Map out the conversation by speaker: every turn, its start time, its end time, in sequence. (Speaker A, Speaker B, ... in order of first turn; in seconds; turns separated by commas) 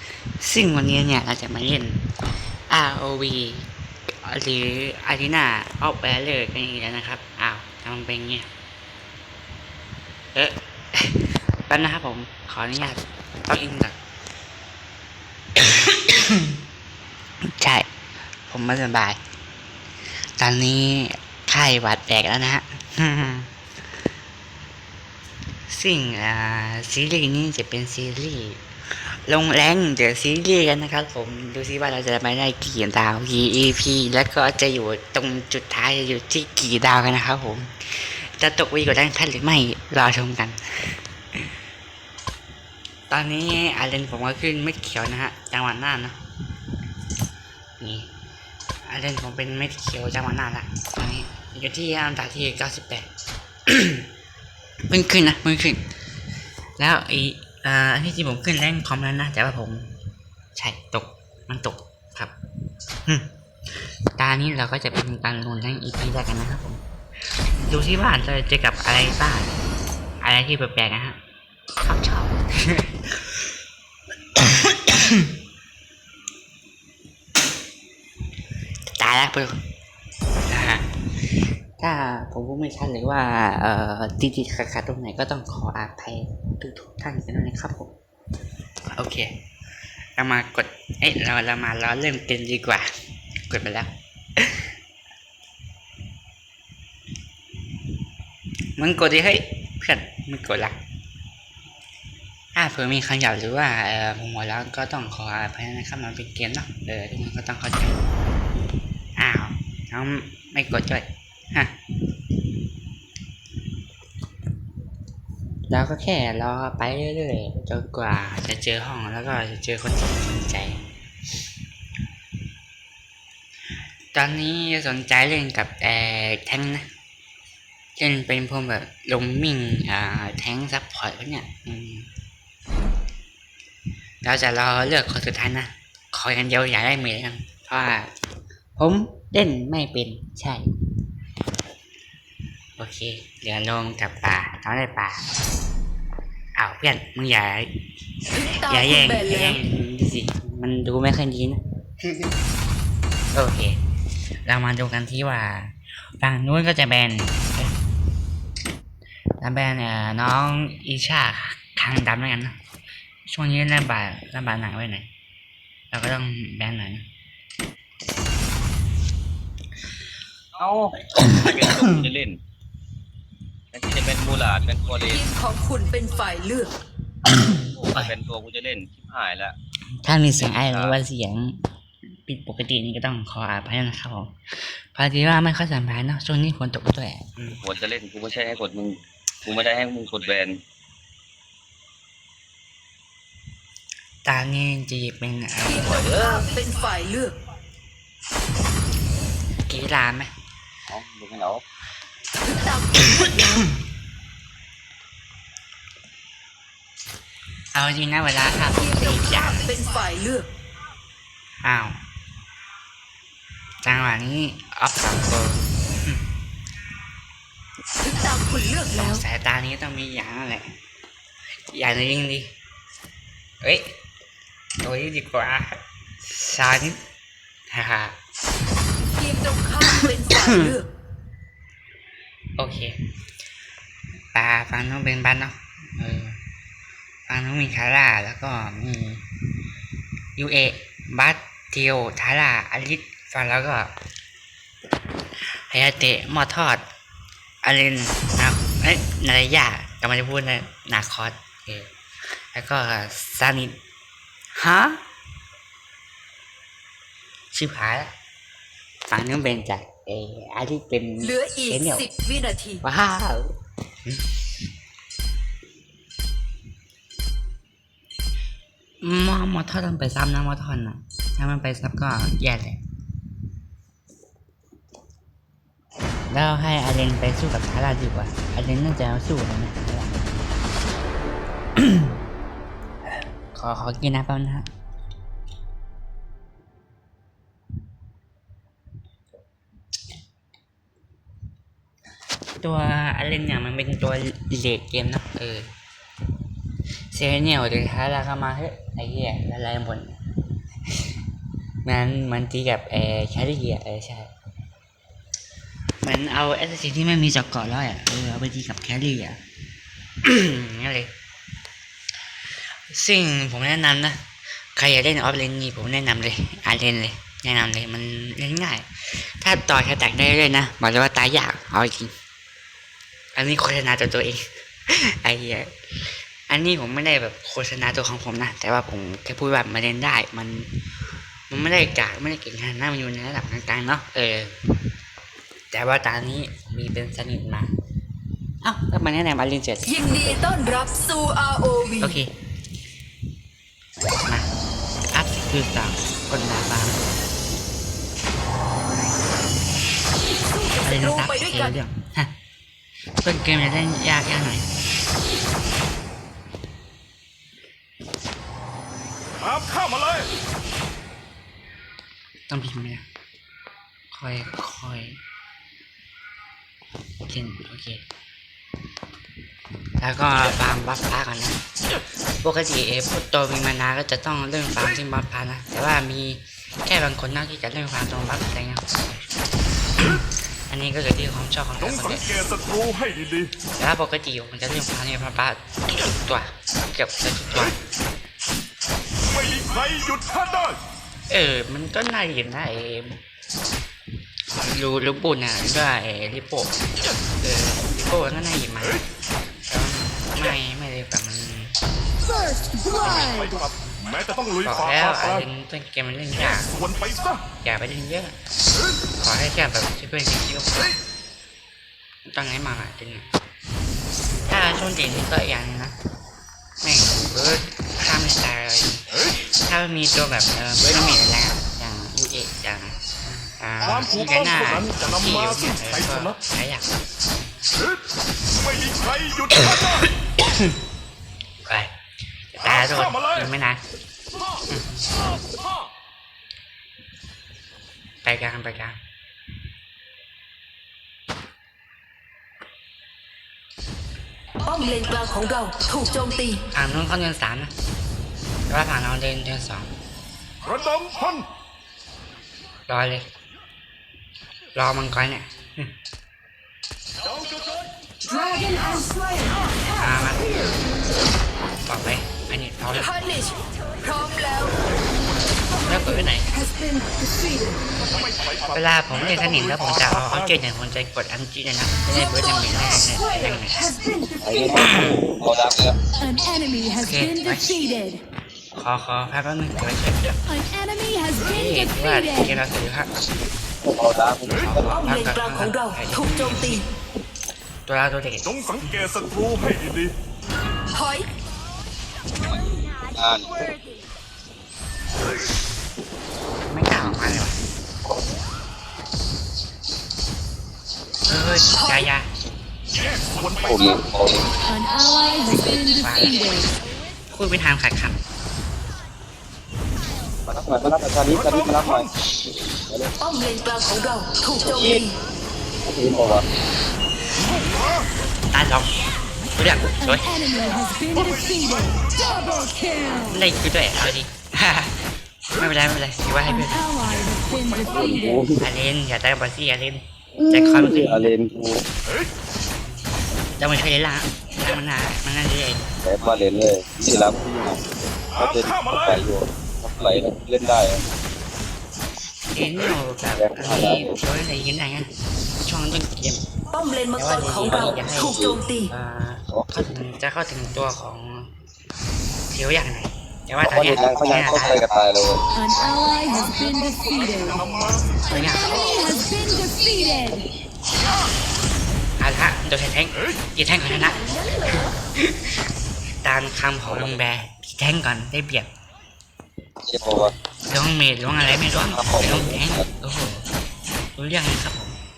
Speaker A: 0.4-2.1, Speaker A: 2.7-3.7, Speaker A: 4.2-8.5, Speaker A: 10.3-14.0, Speaker A: 15.6-16.6, Speaker A: 17.4-17.9, Speaker A: 18.5-19.2, Speaker A: 20.4-23.5, Speaker A: 25.7-41.4, Speaker A: 43.1-46.2, Speaker A: 47.8-48.1, Speaker A: 48.9-53.1, Speaker A: 53.7-54.1, Speaker A: 54.9-55.8, Speaker A: 56.8-59.9, Speaker A: 60.5-62.3, Speaker A: 64.2-66.8, Speaker A: 67.6-69.5, Speaker A: 70.2-71.2, Speaker A: 71.8-73.4, Speaker A: 74.3-75.3, Speaker A: 79.0-79.6, Speaker A: 80.5-87.9, Speaker A: 88.9-89.3, Speaker A: 90.2-92.9, Speaker A: 93.5-94.7, Speaker A: 98.8-100.8, Speaker A: 102.5-108.0, Speaker A: 109.2-111.8, Speaker A: 115.7-120.8, Speaker A: 124.1-126.9, Speaker A: 128.0-132.1, Speaker A: 134.2-138.1, Speaker A: 138.8-140.7, Speaker A: 142.8-145.3, Speaker A: 146.6-147.7, Speaker B: 148.3-149.6, Speaker A: 148.7-151.6, Speaker A: 153.3-153.8, Speaker A: 154.4-157.7, Speaker A: 159.4-162.6, Speaker A: 163.3-165.1, Speaker A: 165.9-167.1, Speaker C: 170.6-172.4, Speaker A: 171.2-172.0, Speaker C: 173.7-175.2, Speaker B: 175.1-176.7, Speaker A: 177.3-178.1, Speaker C: 177.7-179.6, Speaker A: 180.0-181.6, Speaker C: 180.4-181.0, Speaker A: 182.2-187.6, Speaker C: 187.6-190.6, Speaker A: 194.2-196.4, Speaker B: 195.7-197.4, Speaker A: 199.7-200.3, Speaker C: 200.9-201.6, Speaker B: 202.4-203.7, Speaker A: 203.0-203.8, Speaker A: 207.7-209.7, Speaker B: 208.7-210.5, Speaker A: 211.6-212.0, Speaker A: 213.8-216.3, Speaker B: 218.0-219.2, Speaker A: 218.9-220.7, Speaker A: 221.7-222.5, Speaker A: 223.6-223.9, Speaker A: 224.8-227.0, Speaker A: 227.7-228.2, Speaker B: 229.2-230.9, Speaker A: 229.9-230.8, Speaker A: 232.6-233.0, Speaker A: 234.3-236.4, Speaker A: 237.3-239.2, Speaker A: 240.4-243.9, Speaker A: 245.4-246.9, Speaker A: 247.6-251.9, Speaker A: 252.5-253.8, Speaker A: 254.6-255.0, Speaker A: 257.5-258.1, Speaker A: 259.1-262.1, Speaker B: 261.2-262.8, Speaker A: 262.8-264.2, Speaker A: 269.0-272.8, Speaker A: 276.3-280.2, Speaker A: 281.8-282.2, Speaker A: 283.5-284.7, Speaker A: 292.6-295.7, Speaker A: 297.1-300.2, Speaker A: 301.8-304.3, Speaker A: 306.0-309.4, Speaker A: 310.2-311.1, Speaker A: 312.9-322.1, Speaker A: 323.4-330.7, Speaker A: 331.5-334.6, Speaker A: 335.7-337.7, Speaker A: 338.6-340.4, Speaker B: 339.9-342.2, Speaker A: 342.0-342.3, Speaker A: 345.1-347.0, Speaker B: 350.4-351.8, Speaker A: 350.8-352.3, Speaker A: 353.2-354.7, Speaker D: 359.4-360.3, Speaker A: 362.5-363.1, Speaker A: 364.1-365.2, Speaker A: 367.3-368.0, Speaker A: 370.0-371.6, Speaker A: 372.4-379.3, Speaker A: 380.0-382.3, Speaker D: 381.8-383.5, Speaker A: 383.8-387.8, Speaker D: 389.2-390.8, Speaker A: 391.3-393.2, Speaker A: 394.6-396.7, Speaker A: 397.4-399.1, Speaker A: 399.7-401.7, Speaker E: 402.2-403.6, Speaker A: 403.0-403.5, Speaker D: 403.0-405.5, Speaker A: 404.6-406.7, Speaker D: 406.6-407.4, Speaker A: 407.6-408.4, Speaker A: 409.2-411.0, Speaker A: 412.3-413.3, Speaker A: 414.5-415.9, Speaker A: 416.8-423.0, Speaker A: 423.6-426.9, Speaker D: 423.8-426.4, Speaker D: 428.5-430.1, Speaker A: 429.8-430.7, Speaker A: 431.7-431.9, Speaker A: 432.5-433.8, Speaker D: 432.6-433.5, Speaker A: 438.2-439.0, Speaker B: 444.6-446.6, Speaker A: 446.7-447.7, Speaker A: 448.7-449.9, Speaker D: 450.6-451.5, Speaker A: 452.9-453.3, Speaker A: 454.8-455.9, Speaker B: 458.3-459.5, Speaker A: 459.9-460.8, Speaker A: 461.9-463.1, Speaker B: 462.9-464.9, Speaker A: 465.8-466.5, Speaker B: 466.6-467.1, Speaker D: 468.0-470.6, Speaker A: 468.7-473.9, Speaker C: 474.4-476.0, Speaker A: 474.7-475.2, Speaker E: 476.2-478.2, Speaker A: 477.0-477.7, Speaker A: 478.8-480.3, Speaker E: 480.5-482.6, Speaker A: 481.4-483.1, Speaker C: 483.8-485.0, Speaker A: 484.6-486.8, Speaker B: 484.9-486.8, Speaker A: 487.9-488.9, Speaker D: 488.4-490.1, Speaker B: 490.9-491.3, Speaker C: 492.5-493.7, Speaker A: 496.7-497.6, Speaker A: 501.3-502.3, Speaker D: 503.3-503.7, Speaker C: 503.6-504.5, Speaker E: 504.7-506.7, Speaker A: 505.5-506.6, Speaker A: 507.3-508.2, Speaker C: 510.5-512.1, Speaker D: 511.5-512.0, Speaker B: 513.2-515.2, Speaker C: 514.7-515.0, Speaker C: 515.9-516.5, Speaker A: 518.5-518.9, Speaker A: 519.5-520.3, Speaker E: 520.0-523.4, Speaker A: 523.3-525.0, Speaker A: 525.6-526.9, Speaker E: 526.5-528.4, Speaker C: 527.8-528.7, Speaker A: 528.6-531.3, Speaker C: 530.4-531.9, Speaker A: 533.6-535.9, Speaker C: 536.0-541.0, Speaker D: 538.4-539.2, Speaker A: 542.5-545.1, Speaker C: 543.4-544.2, Speaker A: 545.6-546.5, Speaker B: 546.7-548.9, Speaker A: 547.1-551.5, Speaker C: 547.6-548.6, Speaker A: 552.5-554.9, Speaker C: 553.6-555.5, Speaker E: 555.5-557.6, Speaker D: 557.2-558.3, Speaker A: 558.3-558.9, Speaker E: 558.3-560.5, Speaker A: 562.2-565.6, Speaker A: 566.2-568.7, Speaker C: 566.9-567.2, Speaker C: 569.8-570.3, Speaker A: 570.7-573.5, Speaker C: 571.9-572.9, Speaker A: 574.2-575.0